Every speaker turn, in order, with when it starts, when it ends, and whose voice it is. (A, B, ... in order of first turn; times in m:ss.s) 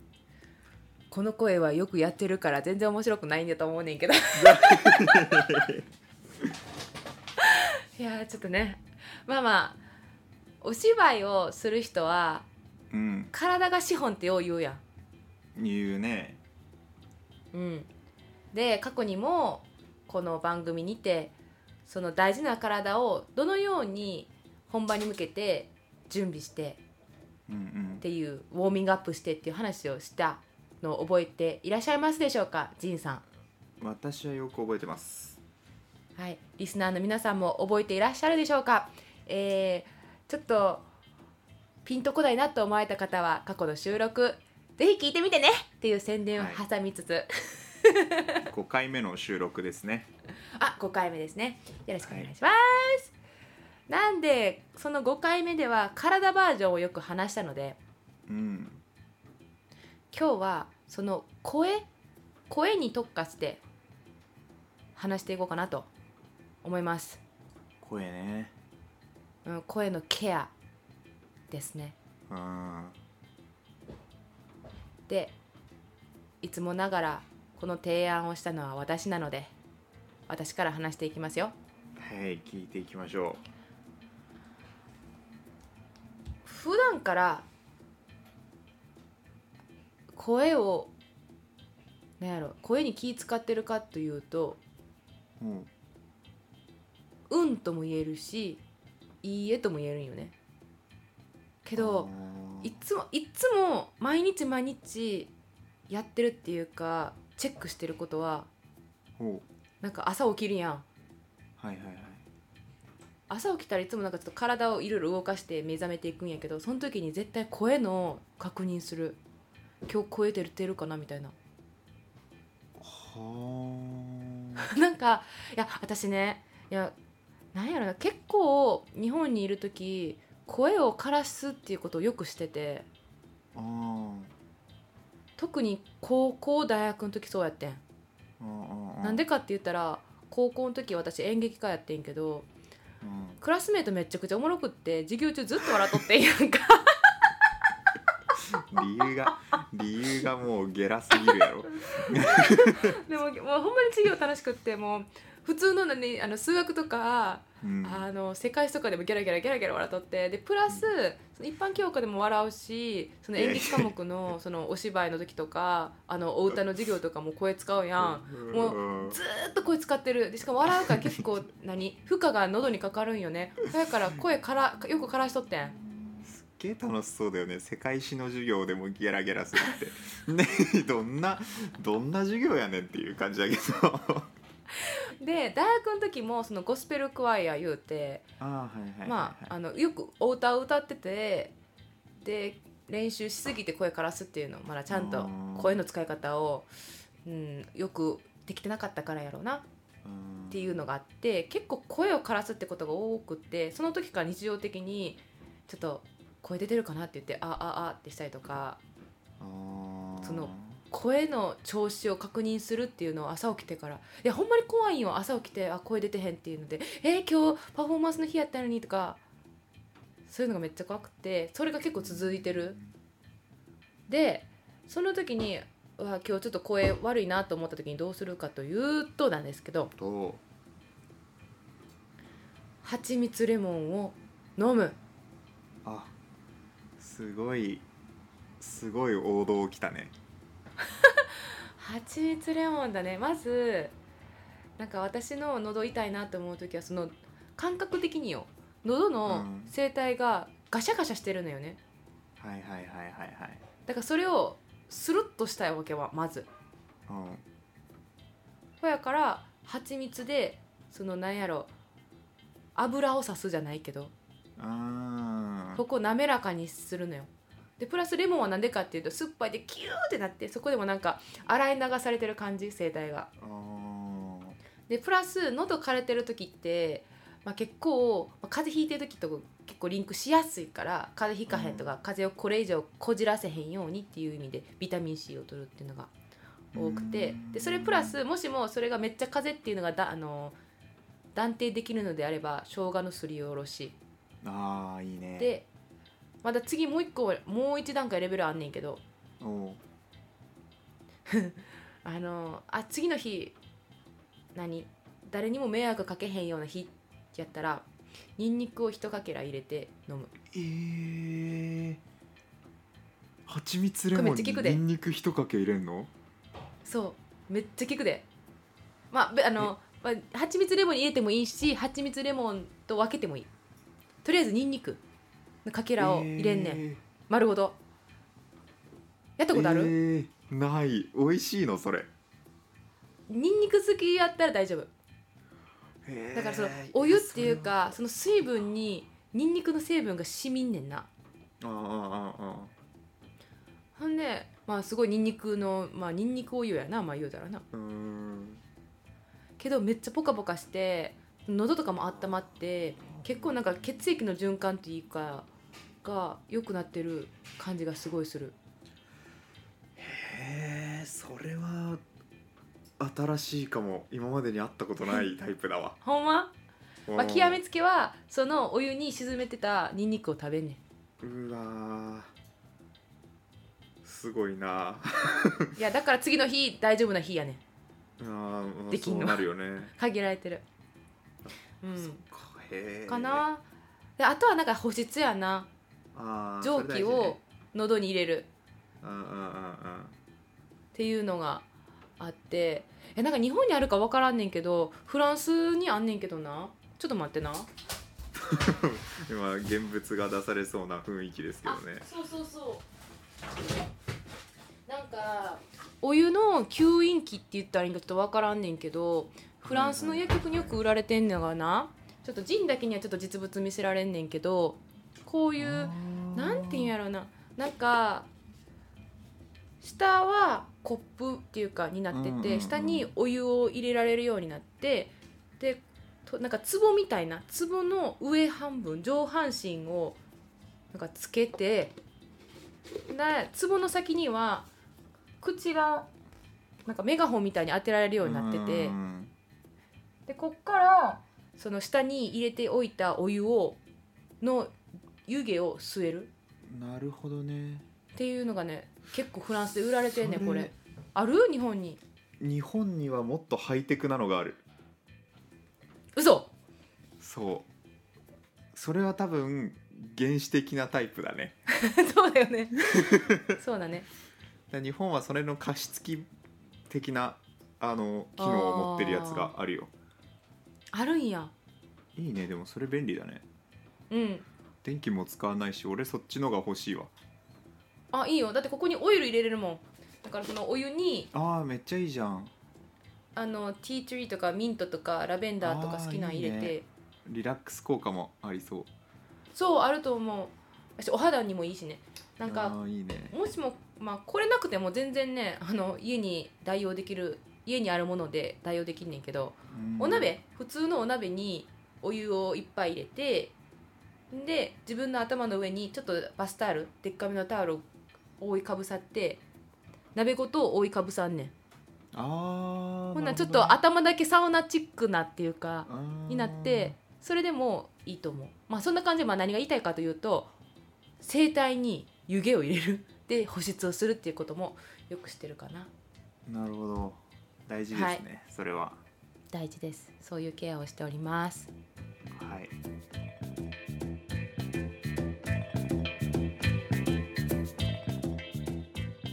0:01.1-0:05.6 A
0:04.4-0:05.8 B
0:07.4-0:09.8 A
0:10.6-0:12.4 A
0:12.9-0:13.3 B
0:13.3-0:14.8 A
0:15.5-0:16.4 B
0:17.5-0:17.9 A
0:18.5-0:21.3 A
0:21.8-0:26.8 A
0:27.5-0:28.0 B
0:28.0-0:33.2 A
0:33.8-0:35.4 B
0:36.2-0:40.8 A
0:41.8-0:47.3 A
0:46.3-0:46.6 B
0:47.8-0:48.4 A
0:48.5-0:50.1 B
0:50.6-0:53.1 A
0:52.0-0:52.3 B
0:53.9-0:57.8 A
0:58.3-0:58.8 B
1:00.1-1:01.8 A
1:02.5-1:03.6 A
1:05.0-1:05.9 A
1:06.6-1:07.2 A
1:07.8-1:08.5 B
1:09.4-1:10.5 A
1:11.5-1:12.0 A
1:12.3-1:13.0 B
1:15.1-1:15.3 A
1:16.4-1:19.5 A
1:20.3-1:21.5 A
1:22.0-1:23.4 B
1:26.4-1:27.4 A
1:30.1-1:30.9 A
1:32.2-1:34.6 A
1:35.4-1:35.7 B
1:37.3-1:38.6 A
1:39.2-1:40.3 A
1:41.6-1:42.1 A
1:41.8-1:42.8 B
1:42.6-1:45.3 A
1:45.9-1:48.5 A
1:49.2-1:49.4 B
1:49.8-1:50.8 A
1:51.6-1:52.2 B
1:53.3-1:59.2 A
1:59.8-2:01.3 A
2:02.8-2:04.7 B
2:04.7-2:06.9 A
2:07.5-2:12.8 A
2:13.5-2:14.3 B
2:15.4-2:17.8 A
2:18.4-2:19.2 B
2:19.0-2:22.5 A
2:23.0-2:23.4 B
2:23.4-2:27.3 A
2:28.4-2:33.0 B
2:31.6-2:55.8 A
2:37.6-2:38.0 B
2:43.4-2:43.9 B
2:48.0-2:49.2 B
2:56.2-3:04.3 B
3:04.8-3:08.3 A
3:08.4-3:09.5 B
3:09.0-3:11.5 A
3:12.2-3:16.7 A
3:14.9-3:15.8 B
3:17.2-3:19.6 A
3:20.0-3:20.8 B
3:20.5-3:28.8 A
3:29.4-3:30.8 B
3:30.2-3:39.2 A
3:40.3-3:42.8 A
3:42.0-3:42.8 B
3:44.1-3:49.9 A
3:50.0-3:50.4 B
3:52.8-3:55.0 A
3:55.8-3:56.1 B
3:57.0-3:57.8 B
3:58.6-4:00.1 B
4:01.8-4:03.9 A
4:04.8-4:11.8 A
4:09.3-4:09.7 B
4:12.4-4:13.6 B
4:13.9-4:16.5 A
4:17.1-4:17.4 B
4:18.8-4:21.7 A
4:22.8-4:24.1 A
4:24.6-4:25.8 B
4:25.7-4:33.3 A
4:33.4-4:34.6 B
4:34.9-4:46.1 A
4:41.5-4:41.8 B
4:46.7-4:48.2 B
4:46.7-4:50.6 A
4:51.3-4:54.0 A
4:54.4-4:55.5 B
4:55.4-4:55.7 A
4:56.4-4:59.0 A
4:59.4-4:59.8 B
5:01.3-5:03.6 A
5:04.5-5:07.8 A
5:08.4-5:10.3 A
5:10.5-5:12.0 B
5:13.5-5:16.1 B
5:14.1-5:14.8 A
5:16.8-5:18.2 A
5:19.1-5:23.5 A
5:24.2-5:25.0 A
5:25.6-5:27.8 A
5:26.0-5:27.0 B
5:29.4-5:29.9 A
5:29.5-5:32.1 B
5:33.3-5:34.9 A
5:36.0-5:37.7 B
5:36.3-5:41.1 A
5:41.6-5:42.7 B
5:44.0-5:47.6 A
5:47.7-5:48.6 B
5:49.6-5:55.5 A
5:52.1-5:52.4 B
5:53.0-5:53.6 B
5:56.0-5:58.6 A
6:00.0-6:02.0 B
6:03.0-6:06.0 B
6:06.0-6:06.5 A
6:07.1-6:07.6 B
6:07.2-6:10.8 A
6:11.2-6:12.3 B
6:14.0-6:15.7 B
6:15.8-6:17.6 A
6:18.2-6:19.9 B
6:18.9-6:19.4 A
6:19.9-6:20.6 A
6:21.8-6:22.2 A
6:22.0-6:23.4 B
6:23.1-6:23.6 A
6:24.2-6:25.7 A
6:26.1-6:27.4 B
6:26.6-6:28.5 A
6:29.0-6:30.1 B
6:30.9-6:31.6 A
6:32.2-6:37.7 A
6:38.4-6:42.0 B
6:41.6-6:42.8 A
6:44.9-6:58.3 A
6:49.7-6:50.8 B
6:55.6-6:56.9 B
6:59.8-7:10.2 A
7:02.1-7:03.1 B
7:10.9-7:11.9 A
7:13.1-7:14.7 A
7:15.4-7:16.1 A
7:16.8-7:19.0 A
7:18.2-7:19.3 B
7:20.3-7:23.8 A
7:24.4-7:24.7 A
7:25.2-7:26.3 A
7:26.7-7:27.8 B
7:28.1-7:32.0 A
7:30.1-7:30.7 B
7:32.4-7:34.6 B
7:36.2-7:36.5 A
7:37.2-7:37.7 B
7:38.7-7:41.6 B
7:41.7-7:44.1 A
7:42.9-7:43.6 B
7:44.7-7:46.3 B
7:46.9-7:49.9 B
7:48.4-7:49.5 A
7:50.9-7:51.5 A
7:52.2-7:53.4 B
7:54.1-7:54.4 A
7:54.8-7:57.1 B
7:58.1-8:01.3 A
8:01.3-8:02.5 B
8:03.3-8:06.8 A
8:05.6-8:08.9 B
8:09.5-8:12.8 A
8:12.4-8:13.3 B
8:13.3-8:23.5 A
8:19.7-8:20.3 B
8:24.3-8:27.8 A
8:28.4-8:29.4 A
8:30.1-8:31.5 A
8:32.1-8:33.8 B
8:33.1-8:40.5 A
8:35.9-8:37.0 B
8:41.2-8:45.9 A
8:46.5-8:49.0 B
8:47.9-8:48.2 A
8:49.5-8:51.7 A
8:52.3-8:52.7 B